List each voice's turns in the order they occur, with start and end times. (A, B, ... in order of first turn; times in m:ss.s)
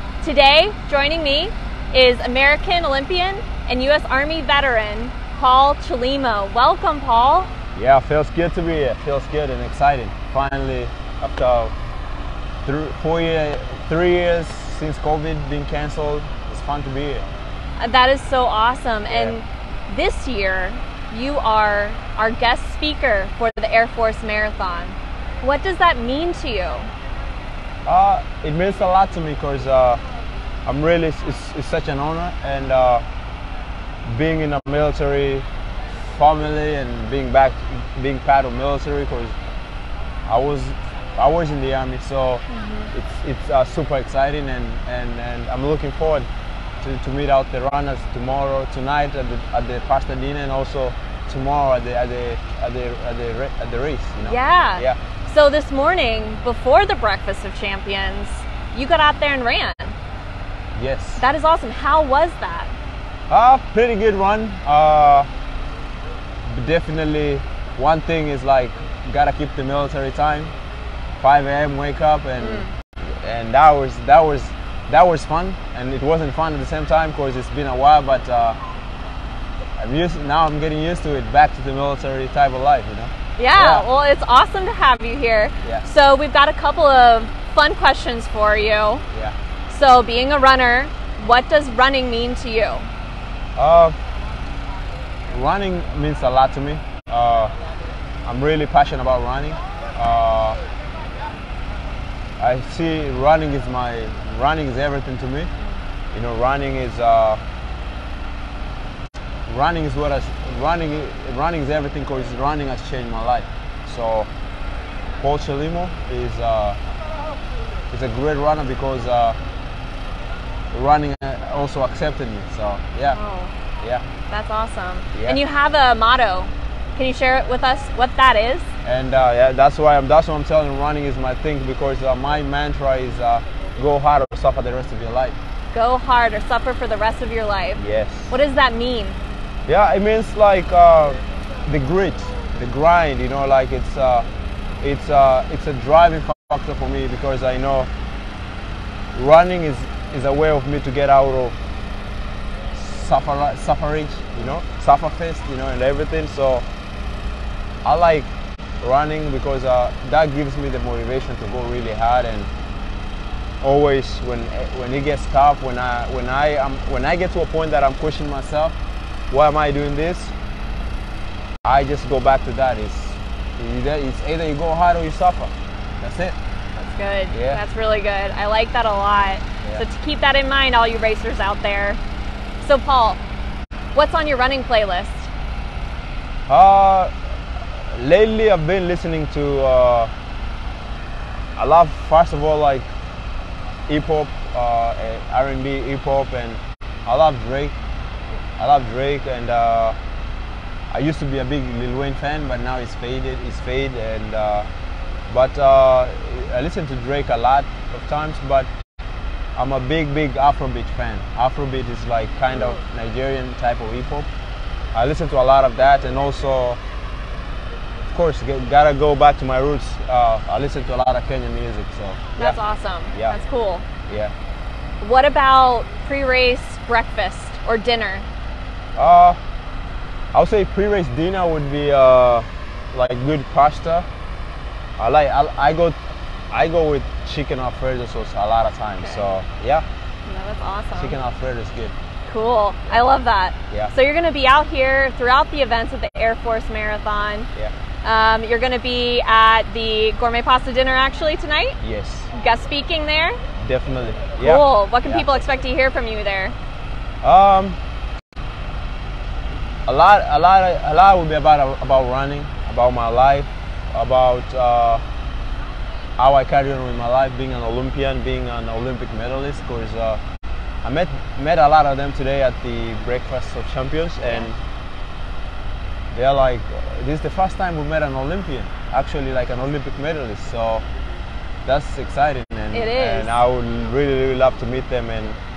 0:00.2-0:07.5 A
0:07.7-0:11.7 B
0:12.6-0:17.2 B
0:17.8-0:26.9 A
0:19.1-0:19.3 B
0:27.8-0:30.0 B
0:30.6-0:33.0 B
0:34.0-0:39.3 B
0:40.3-0:46.3 B
0:42.5-0:42.9 A
0:46.8-0:55.0 B
0:54.2-1:00.0 A
1:00.7-1:01.2 B
1:01.2-1:02.7 A
1:03.3-1:05.3 B
1:06.4-1:10.5 B
1:11.2-1:18.6 B
1:12.4-1:12.7 A
1:19.8-1:23.9 B
1:23.4-1:29.0 A
1:29.7-1:32.9 A
1:33.6-1:34.0 B
1:35.3-1:37.5 B
1:38.2-1:40.6 B
1:42.4-1:45.5 B
1:46.1-1:47.4 B
1:49.5-1:54.3 B
1:55.2-1:56.8 B
1:57.9-1:59.4 B
2:00.7-2:03.2 B
2:03.1-2:03.5 A
2:03.8-2:04.0 B
2:04.3-2:08.7 A
2:05.1-2:05.4 B
2:08.8-2:15.4 B
2:15.7-2:19.2 A
2:17.8-2:18.3 B
2:19.7-2:24.2 B
2:24.8-2:27.9 B
2:29.1-2:31.6 B
2:32.7-2:36.6 B
2:37.8-2:38.3 B
2:38.8-2:42.5 B
2:43.6-2:48.7 B
2:49.3-2:50.3 B
2:51.6-2:56.4 B
2:56.8-3:02.0 A
2:57.3-2:57.6 B
3:02.6-3:03.2 A
3:03.9-3:05.3 A
3:06.5-3:07.1 B
3:07.9-3:10.1 B
3:11.6-3:12.9 B
3:13.9-3:17.7 B
3:18.6-3:20.0 B
3:20.9-3:24.7 B
3:25.3-3:28.7 B
3:29.6-3:34.3 B
3:32.5-3:32.8 A
3:34.9-3:36.8 B
3:38.1-3:42.6 B
3:42.4-3:43.8 A
3:44.1-3:44.3 B
3:45.0-3:48.3 A
3:49.0-3:49.4 B
3:50.3-3:54.0 B
3:55.0-3:56.0 B
3:56.5-3:59.8 B
3:59.0-3:59.3 A
4:00.2-4:01.1 A
4:00.9-4:01.9 B
4:02.3-4:07.5 A
4:08.0-4:11.8 A
4:11.8-4:12.3 B
4:12.3-4:13.4 A
4:13.6-4:15.3 B
4:14.4-4:16.5 A
4:17.2-4:17.8 B
4:19.8-4:25.0 B
4:26.2-4:30.2 B
4:30.8-4:34.6 B
4:36.1-4:40.8 B
4:41.6-4:45.4 B
4:42.7-4:43.4 A